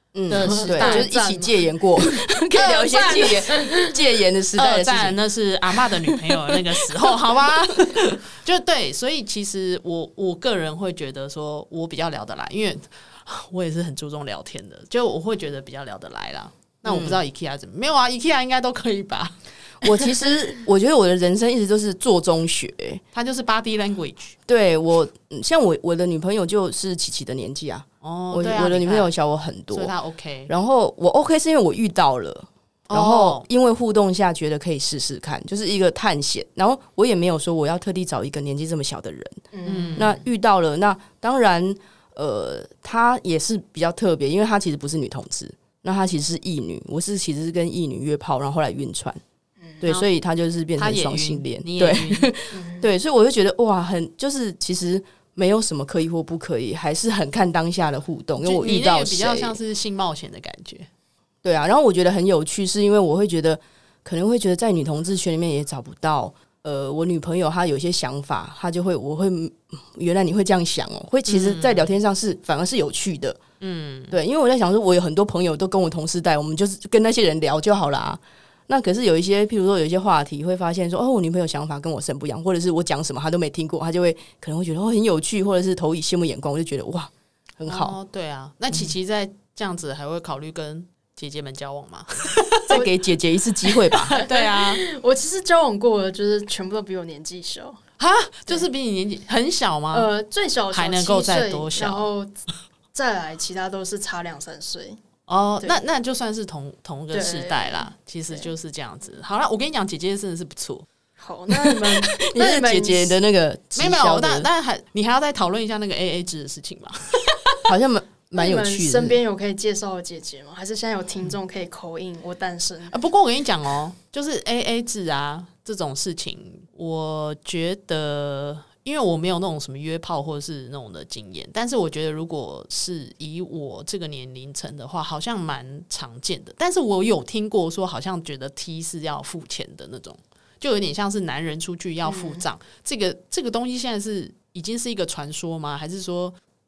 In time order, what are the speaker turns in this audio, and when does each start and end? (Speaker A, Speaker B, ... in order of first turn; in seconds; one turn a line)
Speaker A: 0.1-5.2
Speaker B: 0.3-1.1
Speaker C: 0.4-1.6
Speaker B: 2.5-3.4
Speaker C: 3.3-3.9
Speaker B: 4.5-20.0
Speaker A: 5.8-8.0
Speaker A: 16.9-17.2
Speaker A: 19.8-23.0
Speaker B: 23.1-24.4
Speaker A: 24.5-29.9
Speaker B: 28.0-29.1
Speaker B: 29.7-30.5
Speaker A: 30.5-39.4
Speaker B: 32.9-33.4
Speaker C: 39.5-40.1
Speaker B: 39.6-40.2
Speaker A: 40.0-49.2
Speaker A: 49.8-59.6
Speaker B: 50.8-52.3
Speaker C: 52.5-52.9
Speaker B: 58.4-60.9
Speaker A: 61.4-73.4
Speaker B: 71.3-71.9
Speaker B: 73.6-74.2
Speaker A: 74.1-88.0
Speaker B: 87.6-92.9
Speaker A: 92.7-94.1
Speaker C: 94.1-97.8
Speaker B: 94.1-94.8
Speaker B: 98.0-100.1
Speaker C: 99.9-102.4
Speaker B: 100.7-102.1
Speaker C: 102.9-105.0
Speaker B: 105.3-110.8
Speaker C: 107.1-108.5
Speaker C: 111.2-113.2
Speaker A: 111.5-114.5
Speaker B: 113.7-117.7
Speaker A: 117.6-119.2
Speaker C: 118.4-123.0
Speaker B: 122.9-146.4
Speaker C: 142.0-142.4